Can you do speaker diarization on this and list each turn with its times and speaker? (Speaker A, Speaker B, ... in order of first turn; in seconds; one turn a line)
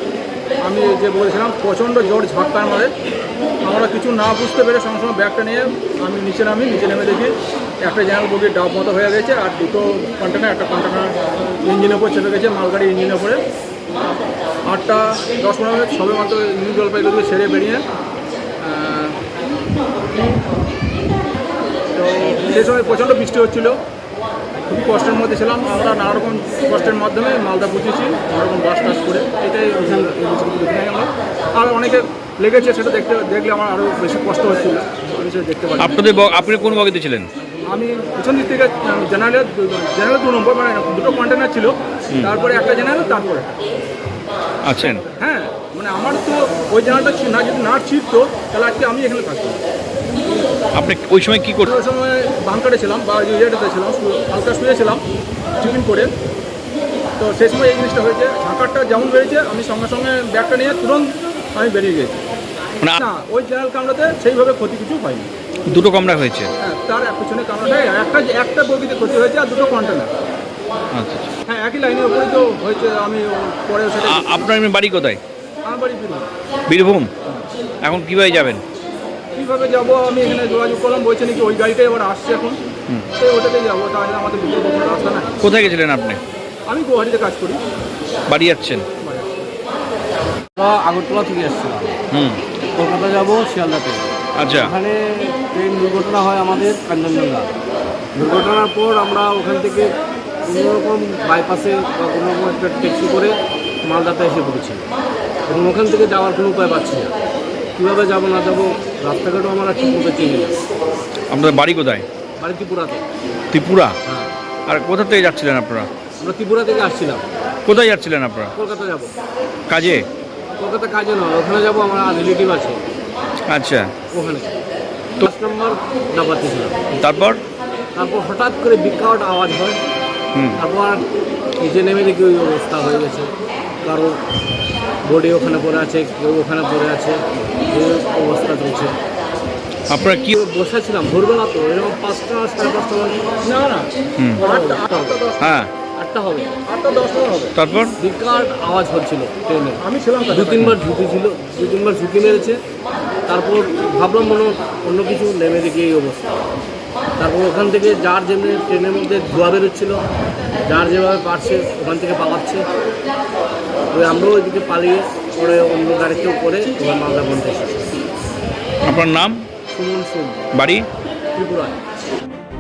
Speaker A: 0.6-2.9
Speaker A: 3.7-13.4
Speaker A: 14.7-17.9
Speaker A: 18.6-19.2
Speaker A: 22.0-23.8
Speaker A: 24.7-35.9
Speaker B: 35.8-37.3
Speaker A: 37.7-43.6
Speaker B: 44.6-45.0
Speaker A: 45.2-49.6
Speaker B: 50.7-51.7
Speaker A: 51.6-55.0
Speaker A: 55.6-56.1
Speaker A: 57.2-62.2
Speaker A: 63.0-65.3
Speaker B: 65.7-66.5
Speaker A: 66.6-70.1
Speaker B: 70.9-71.3
Speaker A: 71.5-74.3
Speaker B: 74.1-75.2
Speaker A: 75.7-76.3
Speaker B: 76.7-77.1
Speaker B: 77.8-78.6
Speaker A: 79.3-82.6
Speaker A: 83.2-85.3
Speaker B: 85.4-86.2
Speaker A: 86.7-87.6
Speaker B: 88.3-88.9
Speaker A: 89.0-89.3
Speaker C: 90.6-92.0
Speaker B: 92.1-92.4
Speaker C: 92.8-94.0
Speaker B: 94.4-94.7
Speaker C: 94.6-97.5
Speaker C: 98.2-99.9
Speaker C: 100.5-104.8
Speaker C: 105.5-107.1
Speaker C: 107.8-110.6
Speaker B: 111.3-112.1
Speaker C: 112.4-113.0
Speaker B: 113.5-114.0
Speaker C: 114.0-114.3
Speaker B: 114.7-115.9
Speaker C: 116.2-117.2
Speaker B: 117.7-118.5
Speaker C: 118.5-119.1
Speaker B: 119.7-120.1
Speaker C: 120.6-122.8
Speaker B: 123.5-123.9
Speaker C: 124.1-124.5
Speaker C: 125.2-126.8
Speaker B: 127.0-127.4
Speaker C: 128.0-129.8
Speaker B: 130.3-130.6
Speaker C: 130.6-131.0
Speaker C: 131.6-133.3
Speaker C: 133.8-134.2
Speaker C: 135.1-138.9
Speaker B: 139.9-140.3
Speaker C: 140.3-143.2
Speaker A: 143.4-145.5
Speaker C: 144.4-145.2
Speaker B: 145.4-145.7
Speaker C: 146.0-146.5
Speaker A: 146.7-147.5
Speaker B: 147.6-147.9
Speaker C: 148.0-152.6
Speaker A: 149.8-150.7
Speaker C: 153.3-156.2
Speaker C: 157.2-160.0
Speaker C: 160.7-162.7
Speaker C: 163.9-167.9
Speaker B: 168.8-169.4
Speaker C: 169.7-170.4
Speaker B: 170.5-170.9
Speaker C: 171.3-171.8